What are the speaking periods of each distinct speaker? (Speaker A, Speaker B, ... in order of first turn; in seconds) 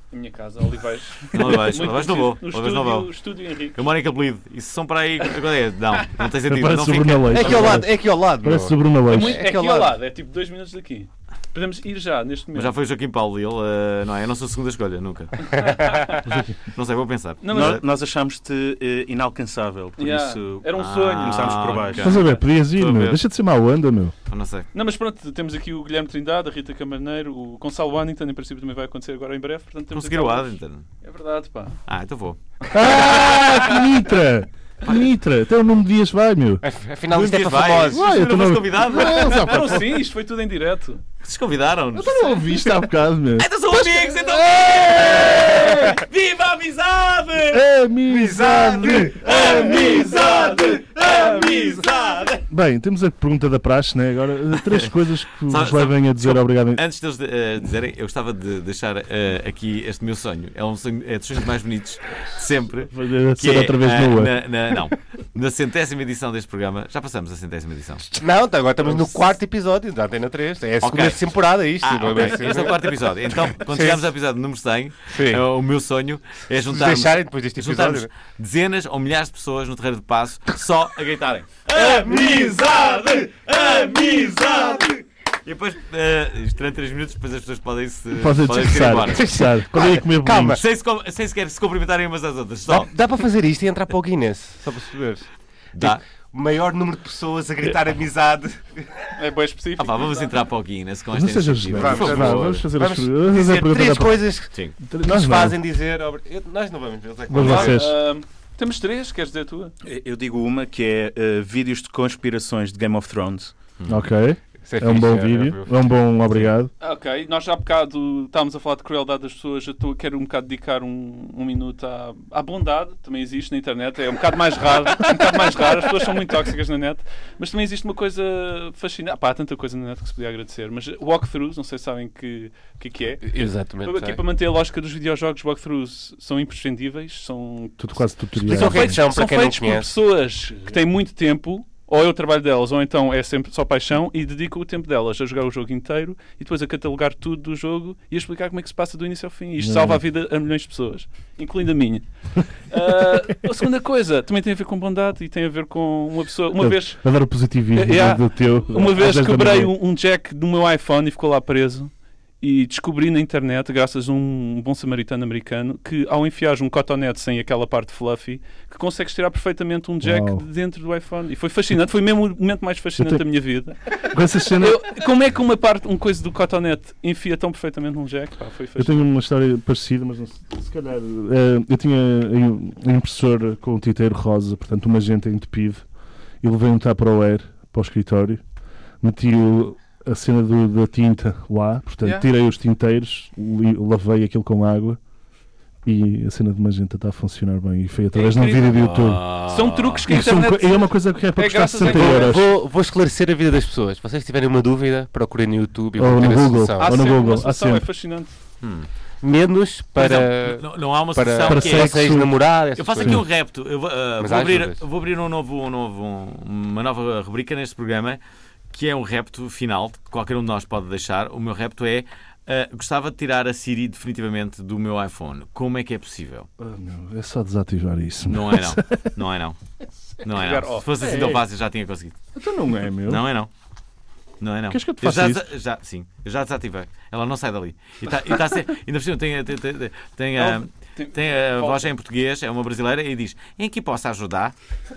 Speaker A: 0.1-3.8, 9.1-12.7, 15.5-16.2, 17.4-17.8, 20.0-21.9, 24.7-31.7, 39.1-41.0, 99.2-100.3, 107.4-109.7, 116.8-133.2, 133.8-152.0, 152.7-157.0, 157.7-173.8, 174.6-178.9, 198.1-198.8, 199.3-202.3, 206.8-208.3, 230.3-230.9, 240.3-241.9
Speaker B: 1.3-3.1, 3.7-7.8, 12.5-15.8, 16.6-17.8, 20.8-23.2, 24.3-24.7, 29.9-30.9, 31.9-33.3, 37.1-39.5, 41.2-42.6, 43.4-47.6, 48.3-52.5, 55.4-68.1, 70.8-71.3, 71.8-89.3, 90.5-92.9, 95.7-96.0, 99.8-102.6, 103.3-103.7, 113.8-114.0, 198.7-200.1, 208.6-208.9, 209.9-212.2, 212.8-218.2, 218.7-226.5, 228.3-229.6, 230.2-232.2, 233.1-233.5, 234.4-244.5
Speaker C: 6.5-9.4, 16.2-16.5, 22.0-24.1, 32.7-36.6, 37.9-39.9, 41.9-45.9, 47.5-50.0, 52.5-56.8, 62.9-64.8, 88.2-90.6, 101.1-104.2, 104.8-105.6, 107.3-107.9, 113.9-116.7, 137.8-139.0, 149.6-150.0, 156.6-159.7, 170.0-170.4, 173.0-173.2, 174.0-174.8, 178.8-185.8, 186.4-188.4, 189.0-195.0, 195.8-199.2, 200.1-202.5, 206.0-207.8, 211.5-212.3, 213.0-213.2, 226.6-229.1, 231.0-231.4, 232.3-233.2, 234.7-235.4
Speaker D: 7.3-9.9, 36.6-38.0, 48.1-51.7, 68.1-74.0, 75.1-75.4, 76.7-78.1, 81.8-82.6, 89.1-90.6, 92.7-95.3, 95.8-98.9, 101.8-104.5, 105.0-107.8, 114.7-115.7, 133.2-134.2, 138.4-139.9, 201.8-207.0, 209.2-210.6, 211.1-213.2, 214.2-214.8
Speaker E: 17.5-22.2, 109.8-113.5